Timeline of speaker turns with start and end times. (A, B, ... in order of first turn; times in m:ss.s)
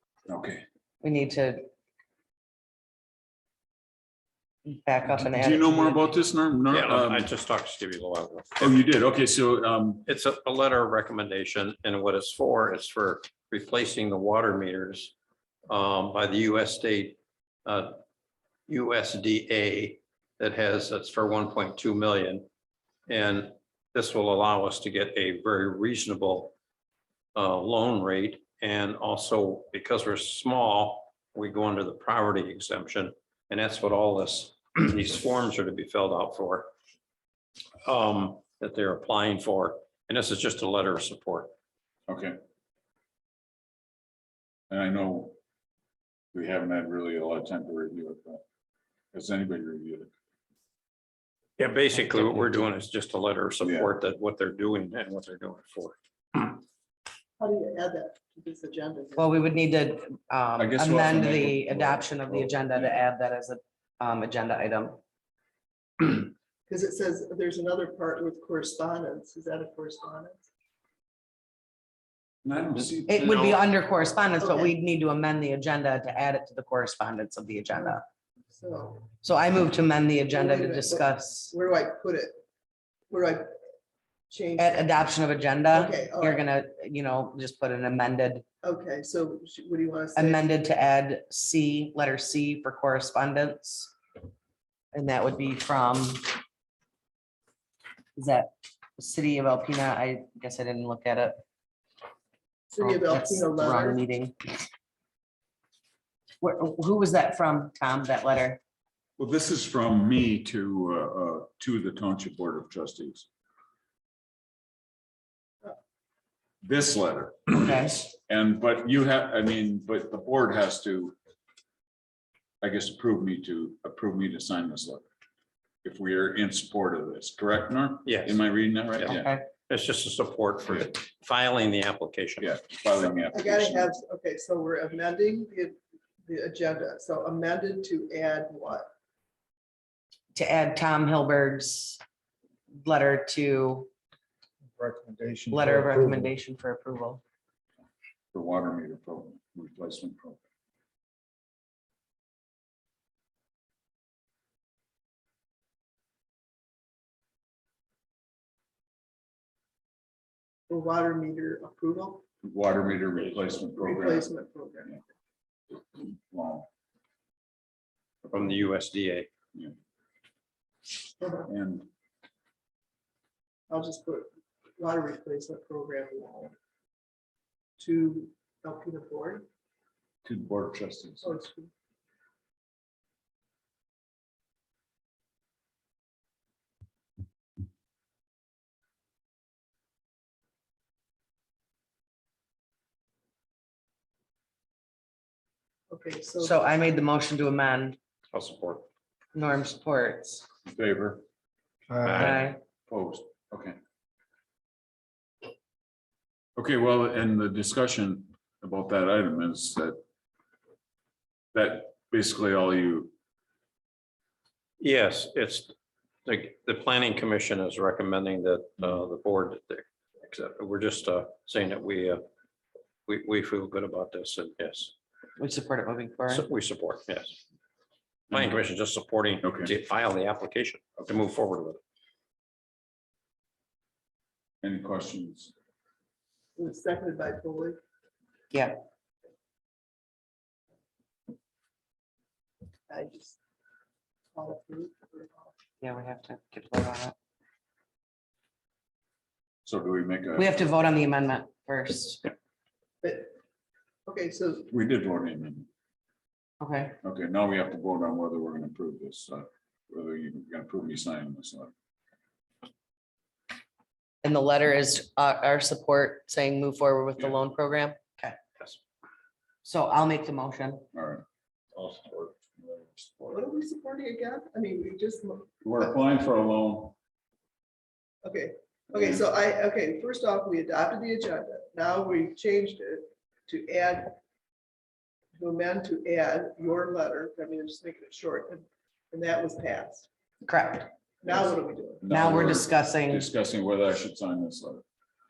0:00.3-0:00.6 A
0:01.0-0:01.7 B
0:04.7-0:06.1 B
0:05.0-0:07.3 A
0:06.7-0:08.9 C
0:08.6-0:10.1 A
0:10.1-0:15.1 C
0:15.7-0:18.0 C
0:18.7-0:22.5 C
0:23.1-0:26.6 C
0:27.4-0:36.7 C
0:37.8-0:41.5 C
0:42.1-0:42.4 A
0:44.7-0:45.4 A
0:46.3-0:48.4 A
0:49.1-0:50.1 A
0:51.6-0:56.6 C
0:53.6-0:53.9 A
0:57.4-0:59.3 D
0:59.2-1:05.0 B
1:00.6-1:03.1 A
1:06.7-1:10.4 D
1:12.4-1:13.6 A
1:13.1-1:18.0 B
1:14.4-1:14.7 D
1:18.5-1:19.1 D
1:19.2-1:21.5 B
1:20.3-1:22.4 D
1:23.1-1:23.5 D
1:24.3-1:24.9 D
1:24.6-1:28.4 B
1:25.7-1:26.5 D
1:28.6-1:30.5 D
1:30.2-1:34.0 B
1:34.9-1:36.4 B
1:38.2-1:41.4 B
1:42.7-1:44.0 D
1:42.8-1:44.7 B
1:46.4-1:48.6 B
1:49.2-1:53.3 A
1:56.6-2:01.2 A
1:57.5-1:58.0 B
2:02.6-2:05.1 A
2:05.8-2:09.3 A
2:08.0-2:08.4 C
2:09.0-2:12.6 C
2:09.1-2:09.5 B
2:12.4-2:13.9 A
2:13.3-2:18.9 D
2:20.4-2:22.0 B
2:22.8-2:23.9 B
2:25.5-2:27.2 B
2:28.3-2:30.4 A
2:40.7-2:42.2 D
2:42.4-2:44.3 A
2:43.8-2:45.0 D
2:45.7-2:46.7 A
2:48.2-2:49.3 C
2:51.2-2:51.5 D
2:51.5-2:51.9 A
2:53.7-2:56.6 D
2:57.8-2:59.5 D
3:00.2-3:01.4 A
3:01.2-3:01.7 D
3:15.9-3:16.6 D
3:16.4-3:18.0 B
3:18.3-3:18.8 C
3:19.3-3:20.4 B
3:20.7-3:21.2 A
3:22.0-3:22.4 C
3:22.1-3:22.6 B
3:22.9-3:23.8 A
3:26.6-3:30.0 A
3:31.5-3:33.1 A
3:34.8-3:35.7 C
3:36.3-3:42.2 C
3:43.1-3:44.9 C
3:45.4-3:46.5 B
3:46.3-3:47.4 C
3:48.3-3:51.8 C
3:48.3-3:48.6 A
3:49.4-3:49.7 A
3:54.6-3:55.5 A
3:56.6-3:57.8 D
4:02.9-4:03.4 D
4:04.3-4:05.5 D
4:05.8-4:07.1 B
4:09.6-4:10.7 A
4:10.4-4:12.3 B
4:13.0-4:13.4 D
4:14.1-4:14.7 D
4:14.7-4:15.7 A
4:16.6-4:17.0 B
4:17.0-4:21.7 A
4:24.2-4:28.4 B
4:29.6-4:30.8 B
4:30.9-4:31.2 A
4:31.8-4:33.1 A
4:33.2-4:35.6 D
4:35.6-4:37.0 A
4:38.2-4:44.2 D
4:45.4-4:50.1 D
4:50.5-4:50.9 B
4:51.2-4:52.0 D
4:52.0-4:54.8 A
4:52.1-4:53.3 B